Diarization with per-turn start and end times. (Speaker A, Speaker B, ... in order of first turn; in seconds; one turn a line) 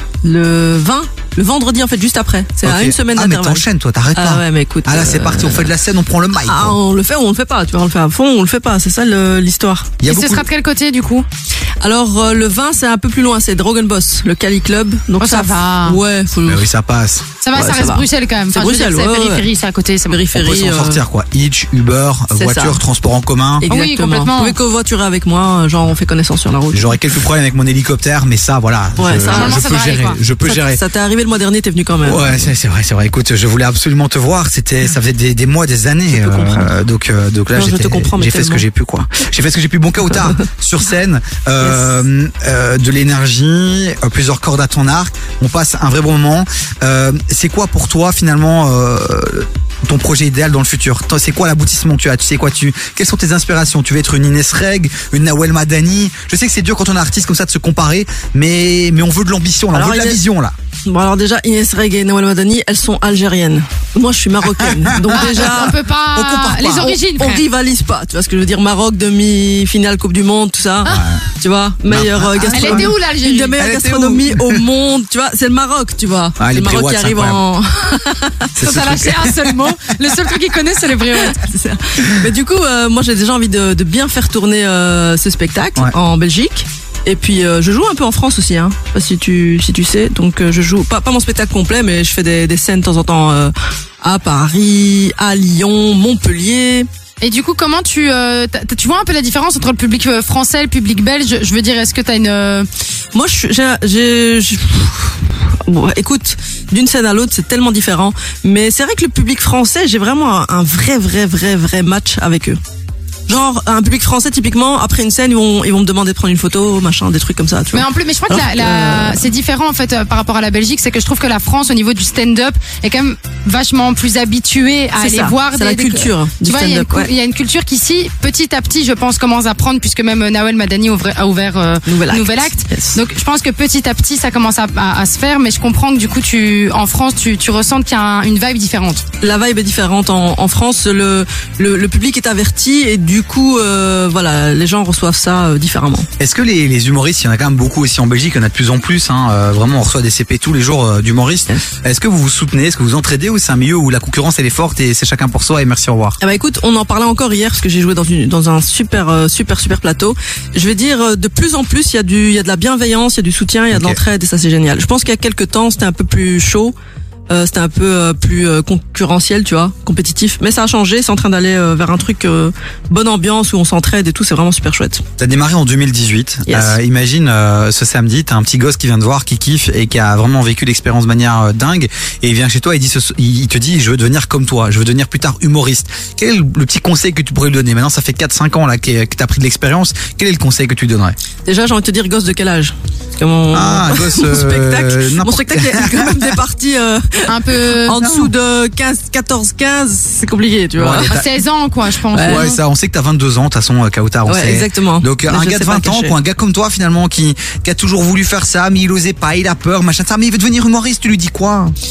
Speaker A: 0.2-5.7
Speaker B: 2.6-6.8
Speaker A: 6.4-10.0
Speaker B: 10.0-10.5
Speaker C: 10.1-11.2
Speaker A: 11.8-16.7
Speaker C: 15.2-16.0
Speaker B: 16.4-17.3
Speaker C: 17.4-20.2
Speaker A: 17.5-19.5
Speaker A: 20.1-21.0
Speaker B: 20.3-23.7
Speaker A: 22.3-22.8
Speaker A: 23.6-26.9
Speaker C: 23.6-24.6
Speaker B: 26.7-30.8
Speaker A: 29.0-29.6
Speaker C: 29.2-30.2
Speaker A: 30.4-32.5
Speaker B: 32.0-60.5
Speaker A: 36.1-36.7
Speaker A: 37.5-38.6
Speaker A: 41.6-41.9
Speaker A: 59.7-60.2
Speaker A: 60.8-65.8
Speaker B: 65.1-65.4
Speaker C: 65.1-67.4
Speaker B: 66.1-66.9
Speaker A: 66.8-78.8
Speaker B: 70.8-71.2
Speaker B: 71.8-72.9
Speaker C: 72.5-73.6
Speaker B: 73.6-74.6
Speaker B: 76.4-77.4
Speaker B: 78.5-79.5
Speaker C: 78.6-81.4
Speaker A: 81.1-96.9
Speaker C: 97.2-102.7
Speaker A: 103.1-112.6
Speaker A: 113.3-119.3
Speaker C: 117.7-139.0
Speaker A: 125.0-127.1
Speaker A: 131.8-133.0
Speaker A: 139.2-146.1
Speaker B: 146.2-156.2
Speaker A: 156.2-166.7
Speaker B: 163.7-164.0
Speaker A: 167.3-175.0
Speaker B: 175.2-191.2
Speaker A: 176.5-176.8
Speaker A: 191.4-201.2
Speaker B: 193.5-196.4
Speaker C: 197.3-198.2
Speaker B: 198.0-198.3
Speaker B: 200.8-201.3
Speaker C: 201.0-202.6
Speaker A: 202.1-202.5
Speaker B: 202.2-211.7
Speaker A: 204.2-206.2